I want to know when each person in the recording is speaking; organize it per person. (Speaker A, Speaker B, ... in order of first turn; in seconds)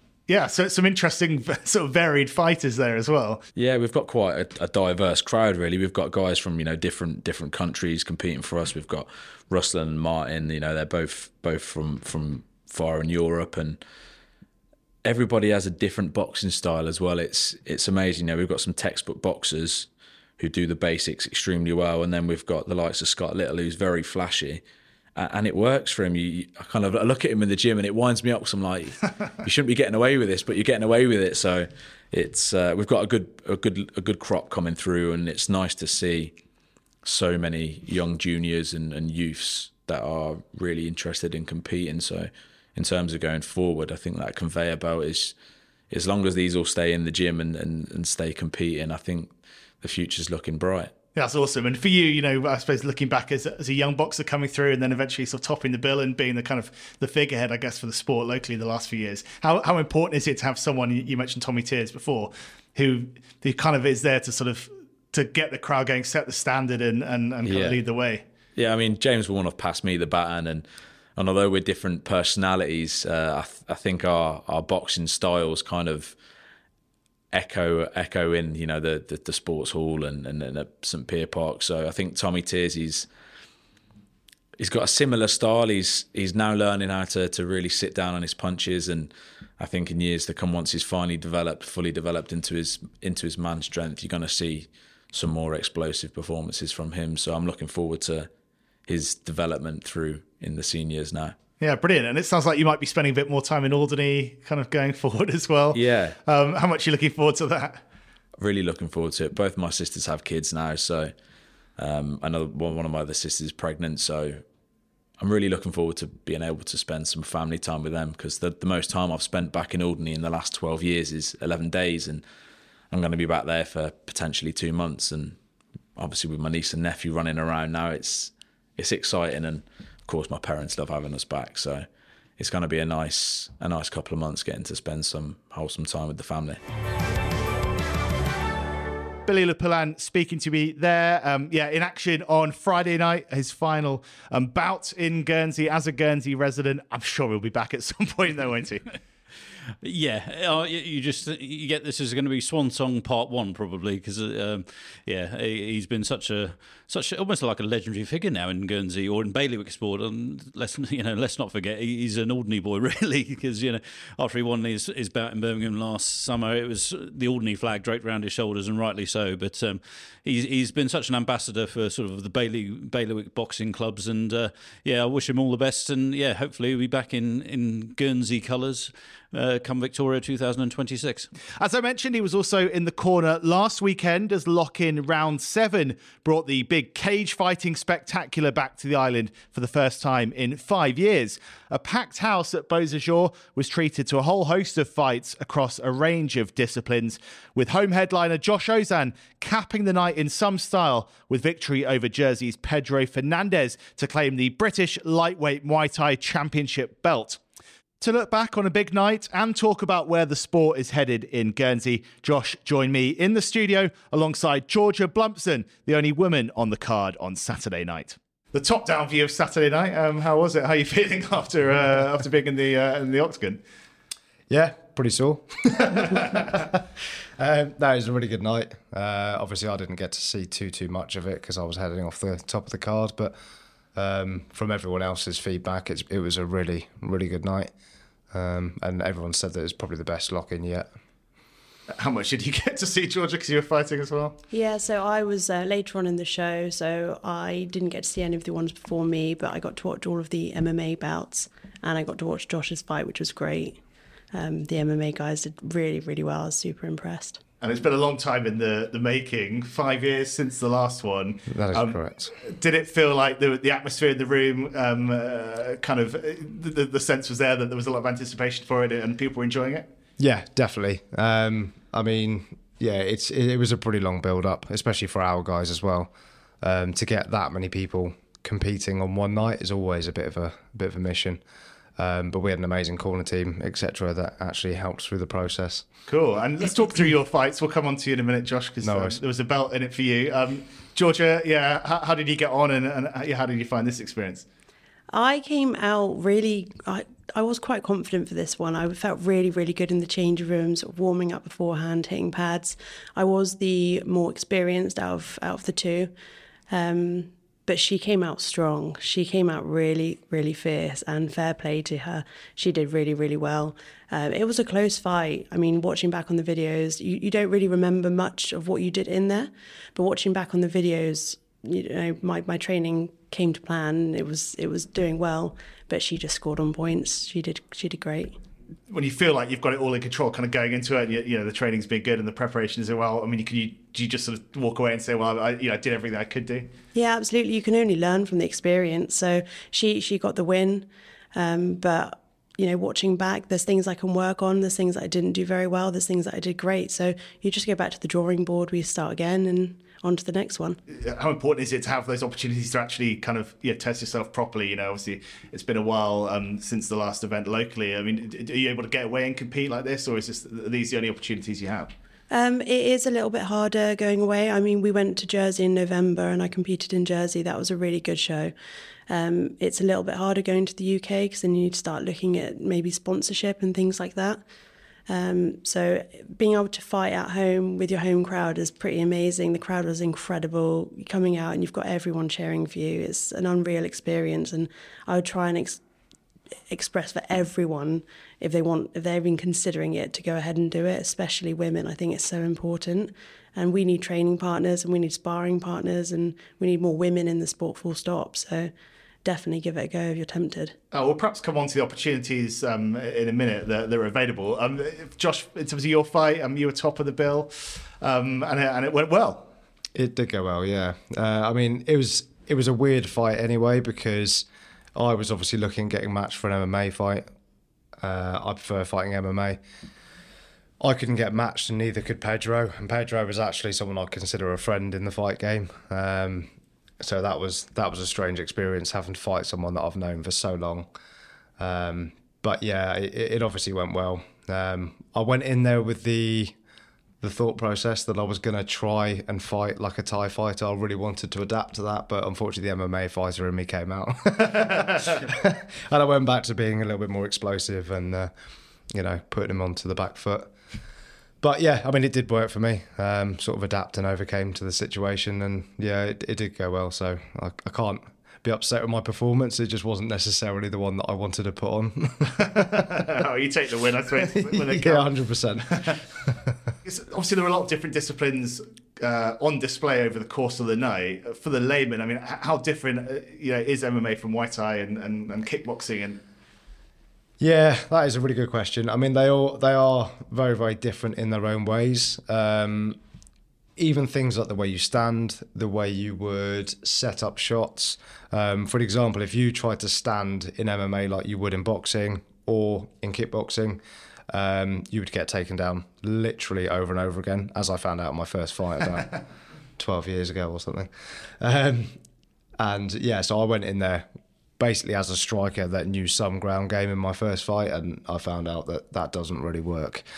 Speaker A: 0.3-3.4, 51.1-68.2, 101.6-107.8, 139.2-148.9, 181.6-207.4, 208.0-223.6, 241.9-244.4, 257.6-269.9, 286.1-294.4, 328.9-336.7, 350.9-361.9, 400.9-409.5, 462.6-465.1, 466.8-476.2
Speaker B: 3.5-13.8, 15.0-24.6, 25.1-36.3, 37.0-45.3, 45.9-50.9, 67.4-67.8, 68.5-70.7, 71.2-76.2, 77.3-83.1, 84.6-98.3, 98.9-101.4, 105.7-106.2, 108.4-111.1, 111.8-114.4, 115.2-122.2, 122.9-125.4, 126.0-131.8, 132.4-136.6
Speaker C: 149.8-181.3
Speaker D: 224.5-226.8, 227.4-233.4, 233.9-237.7, 238.3-240.9, 261.5-262.3, 270.2-281.4, 282.0-285.9, 288.8-289.2, 409.9-417.3, 418.0-419.6, 420.8-430.9, 431.6-436.5, 437.2-448.3, 448.9-450.5, 451.4-463.0, 464.2-466.3, 477.4-483.0, 483.8-499.2, 499.8-502.0, 502.6-510.0
Speaker E: 244.5-253.8, 254.3-257.4, 295.1-306.1, 306.7-328.4, 336.9-350.8, 362.3-368.5, 369.1-374.4, 375.1-385.8, 386.7-398.7, 399.2-400.7